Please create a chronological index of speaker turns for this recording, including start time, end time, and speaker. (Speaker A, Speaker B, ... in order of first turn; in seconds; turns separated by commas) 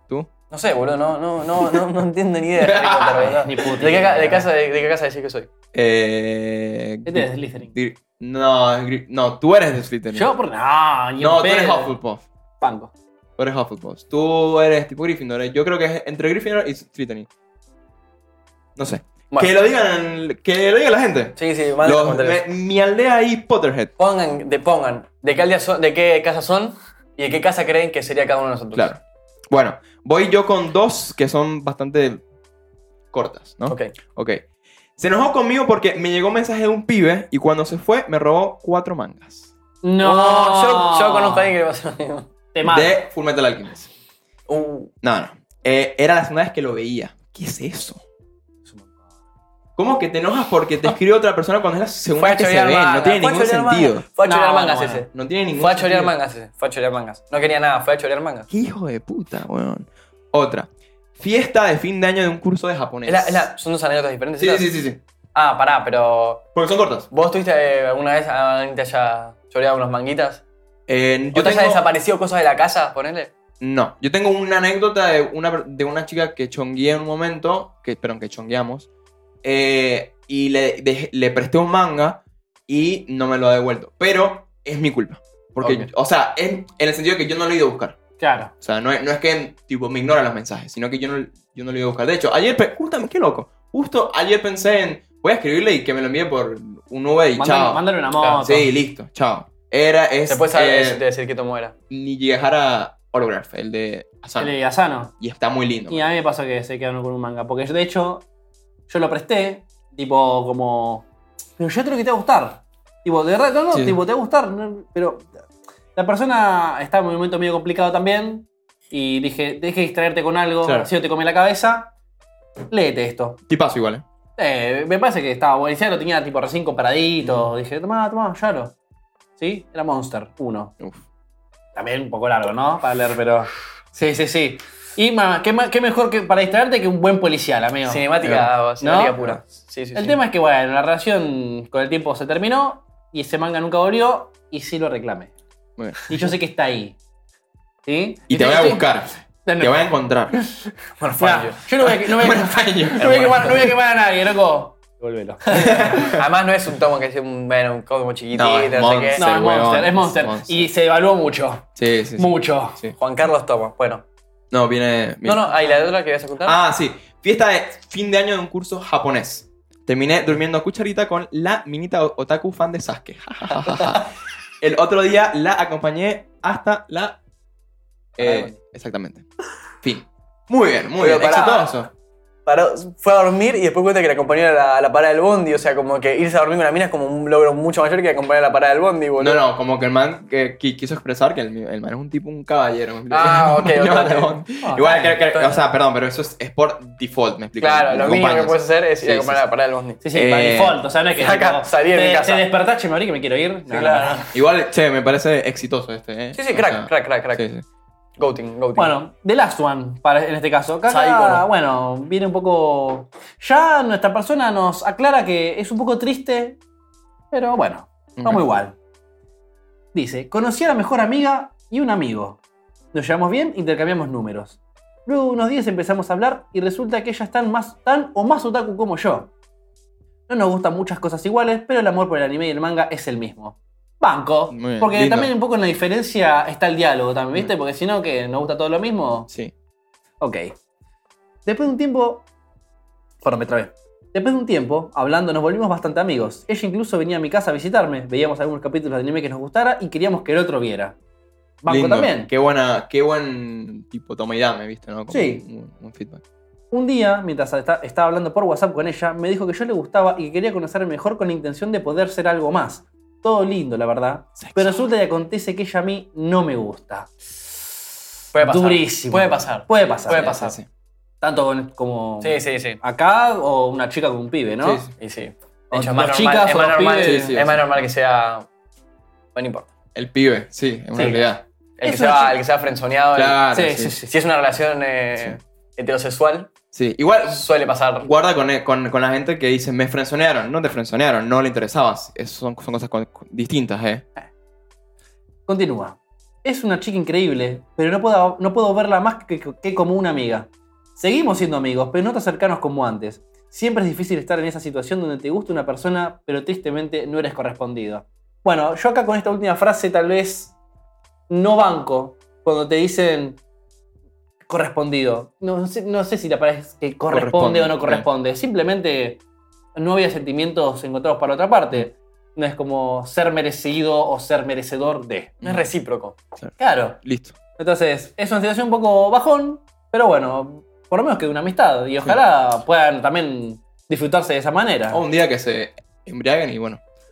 Speaker A: 0.5-5.5, Speaker B: 2.6-3.3, Speaker C: 3.2-4.5, Speaker B: 5.7-10.3, Speaker C: 7.0-7.7, Speaker C: 10.1-11.9, Speaker B: 11.2-12.2, Speaker C: 12.6-12.9, Speaker B: 13.4-17.3, Speaker B: 18.8-23.9, Speaker A: 21.4-22.4, Speaker A: 24.0-28.9, Speaker B: 28.7-32.2, Speaker B: 33.1-34.4, Speaker A: 33.7-33.9, Speaker B: 35.0-39.5, Speaker C: 39.8-41.5, Speaker A: 40.0-42.3, Speaker C: 42.5-43.0, Speaker B: 42.6-43.9, Speaker A: 44.5-44.9, Speaker B: 45.0-48.0, Speaker B: 49.8-54.0, Speaker A: 52.2-58.5, Speaker C: 54.2-55.0, Speaker B: 55.1-56.1, Speaker B: 58.5-63.5, Speaker A: 63.0-64.7, Speaker B: 64.4-65.0, Speaker A: 65.3-66.4, Speaker B: 66.5-67.1, Speaker A: 67.1-70.4, Speaker B: 70.9-71.8, Speaker A: 71.3-73.3, Speaker B: 73.6-78.9, Speaker B: 79.4-88.0, Speaker A: 85.6-85.9, Speaker C: 88.2-88.5, Speaker B: 88.6-101.0, Speaker C: 97.4-98.7, Speaker A: 100.3-101.7, Speaker B: 101.9-104.5, Speaker C: 104.4-105.1, Speaker B: 105.2-106.1, Speaker C: 105.9-108.2, Speaker C: 108.9-111.0, Speaker C: 111.6-115.3, Speaker B: 113.7-114.0, Speaker C: 115.9-121.9, Speaker B: 120.6-120.9, Speaker C: 122.7-123.4, Speaker B: 123.5-124.0, Speaker C: 124.4-128.7, Speaker C: 129.4-130.7, Speaker C: 131.7-138.1, Speaker A: 137.8-140.2, Speaker B: 138.2-138.5, Speaker C: 138.8-139.2, Speaker C: 139.9-145.3, Speaker B: 145.8-146.3, Speaker C: 146.1-147.0, Speaker C: 147.8-148.9, Speaker B: 148.3-150.3, Speaker C: 149.4-156.1, Speaker A: 151.0-151.6, Speaker B: 151.8-153.7, Speaker A: 153.0-153.3, Speaker B: 155.5-156.2, Speaker A: 156.0-159.2, Speaker B: 158.3-160.7, Speaker C: 159.2-162.8, Speaker B: 161.8-162.9, Speaker A: 162.9-164.0, Speaker B: 164.5-165.5, Speaker A: 165.2-166.6, Speaker B: 166.4-174.1, Speaker B: 174.6-177.2, Speaker B: 178.2-179.2, Speaker C: 178.2-178.6, Speaker B: 179.8-181.9, Speaker A: 181.0-181.9, Speaker A: 182.4-189.4, Speaker B: 189.2-199.4, Speaker A: 193.1-194.4, Speaker C: 194.6-195.1, Speaker A: 195.2-195.6, Speaker A: 197.6-200.0, Speaker C: 200.0-204.3, Speaker B: 200.1-200.8, Speaker A: 201.2-202.4, Speaker A: 203.7-204.2, Speaker B: 204.3-207.6, Speaker A: 206.3-207.4, Speaker A: 208.2-208.9, Speaker C: 208.8-216.6, Speaker A: 210.9-211.4, Speaker C: 217.3-218.7, Speaker B: 218.2-218.4, Speaker C: 219.9-222.4, Speaker C: 222.9-229.3, Speaker C: 230.3-239.3, Speaker B: 234.5-235.3, Speaker C: 240.2-240.5, Speaker C: 241.4-242.3, Speaker C: 243.2-250.9, Speaker C: 251.6-252.3, Speaker B: 251.7-256.2, Speaker C: 255.1-255.4, Speaker C: 256.7-267.1, Speaker B: 264.4-264.8, Speaker A: 268.3-270.6, Speaker C: 268.4-270.3, Speaker B: 270.1-270.7, Speaker C: 271.2-274.8, Speaker A: 272.2-272.8, Speaker B: 274.6-274.9, Speaker A: 275.0-278.5, Speaker C: 275.7-277.4, Speaker B: 277.0-277.6, Speaker A: 279.3-279.7, Speaker B: 279.9-281.4, Speaker C: 280.9-281.2, Speaker A: 281.8-283.4, Speaker C: 281.8-282.4, Speaker B: 283.1-283.9, Speaker C: 283.5-284.1, Speaker A: 284.0-286.6, Speaker B: 286.7-287.5, Speaker A: 287.2-288.1, Speaker B: 288.0-294.0, Speaker C: 295.5-310.5, Speaker C: 311.3-313.4, Speaker C: 314.5-319.2, Speaker B: 317.1-318.1, Speaker C: 319.7-325.4, Speaker A: 325.4-326.2, Speaker B: 326.4-327.4, Speaker C: 326.6-327.0, Speaker C: 327.6-335.0, Speaker B: 334.9-336.8